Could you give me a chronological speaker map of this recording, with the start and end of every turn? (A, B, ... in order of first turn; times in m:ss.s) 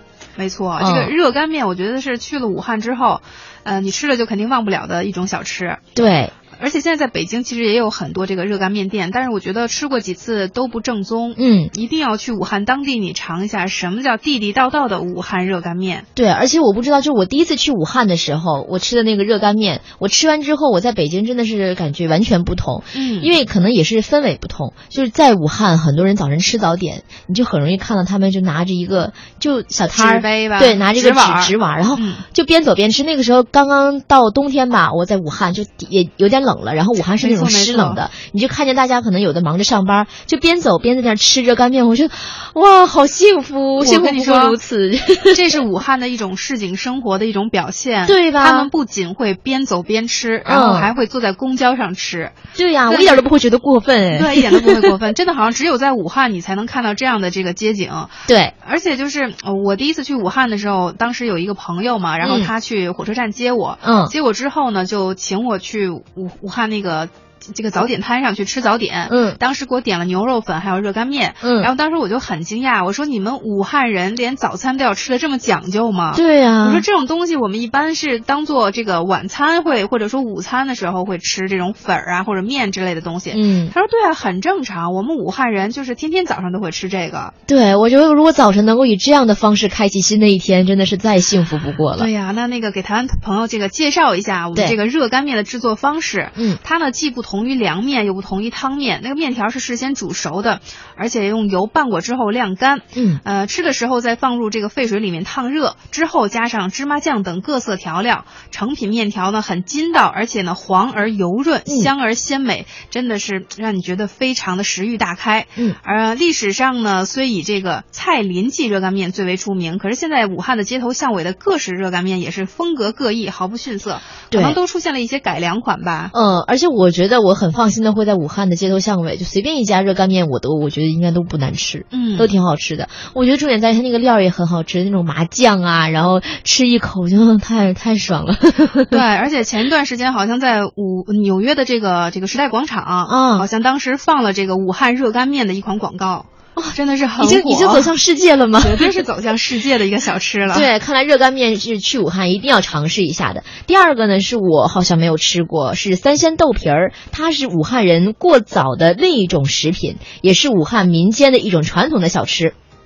0:00.4-0:05.8 A
0:00.8-0:01.1 B
0:06.0-0:06.3 B
0:06.5-0:16.0 A
0:11.4-0:11.7 B
0:16.2-0:45.4 B
0:22.9-0:23.3 A
0:29.9-0:32.2 A
0:37.0-0:38.0 A
0:43.8-0:44.6 A
0:45.3-0:52.3 A
0:48.0-0:48.7 B
0:50.4-0:50.9 B
0:52.5-0:54.9 B
0:52.9-0:53.2 A
0:54.1-1:27.3 A
0:58.3-0:58.5 B
1:02.2-1:02.5 B
1:03.8-1:04.1 B
1:09.1-1:09.4 B
1:11.4-1:11.7 B
1:16.1-1:16.8 B
1:23.3-1:23.7 B
1:27.5-1:32.1 B
1:31.9-2:06.1 A
1:42.9-1:43.2 B
2:04.3-2:04.6 B
2:06.1-2:19.0 B
2:11.9-2:12.3 A
2:18.9-2:27.9 A
2:23.1-2:23.4 B
2:26.6-2:29.0 B
2:28.6-2:30.7 A
2:30.5-2:42.5 B